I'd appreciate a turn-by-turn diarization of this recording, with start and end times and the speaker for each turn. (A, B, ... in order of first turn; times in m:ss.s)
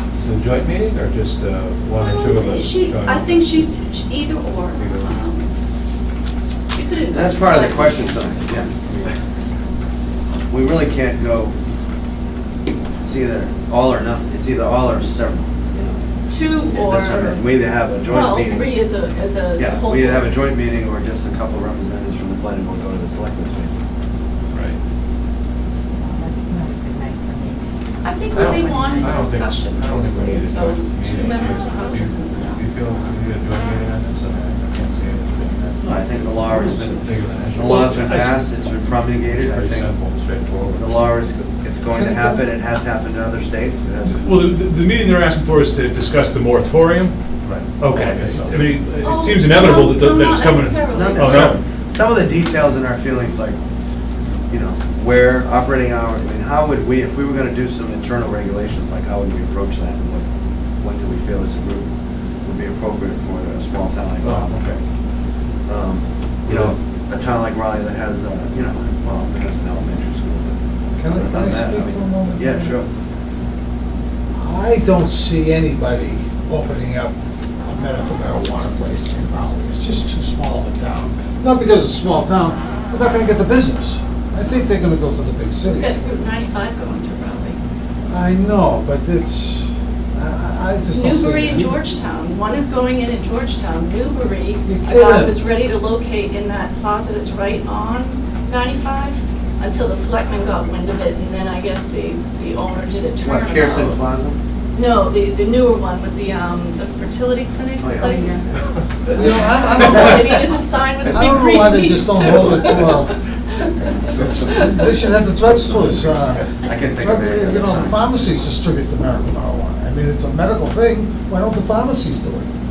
0:00.2-0:03.6 A
0:02.0-0:05.5 B
0:04.8-0:05.1 A
0:06.7-0:08.3 B
0:07.1-0:09.1 C
0:10.5-0:11.5 C
0:13.0-0:16.0 C
0:16.3-0:17.4 B
0:16.7-0:18.8 C
0:18.0-0:20.4 B
0:19.6-0:23.7 C
0:24.5-0:24.8 A
0:26.0-0:27.6 D
0:28.0-0:32.6 B
0:28.3-0:29.2 D
0:28.3-0:38.2 A
0:35.8-0:39.9 C
0:37.6-0:38.4 E
0:39.2-0:41.1 A
0:40.6-0:44.3 C
0:41.9-0:42.5 F
0:44.0-0:47.2 E
0:47.4-0:48.6 A
0:47.8-0:51.6 E
0:49.0-0:51.5 B
0:50.9-0:53.6 C
0:54.5-1:00.2 C
1:00.8-1:01.9 C
1:02.4-1:04.7 C
1:04.2-1:04.8 A
1:05.7-1:12.9 C
1:06.5-1:06.8 A
1:11.0-1:12.8 F
1:14.3-1:26.0 F
1:25.6-1:27.6 B
1:28.1-1:31.8 F
1:30.9-1:44.0 B
1:34.6-1:35.4 F
1:43.2-1:44.4 C
1:44.7-1:48.5 B
1:47.8-1:48.6 C
1:49.1-1:53.9 B
1:49.1-1:50.3 F
1:51.1-1:53.1 F
1:53.8-1:54.8 C
1:54.2-2:02.5 F
1:55.4-1:58.0 C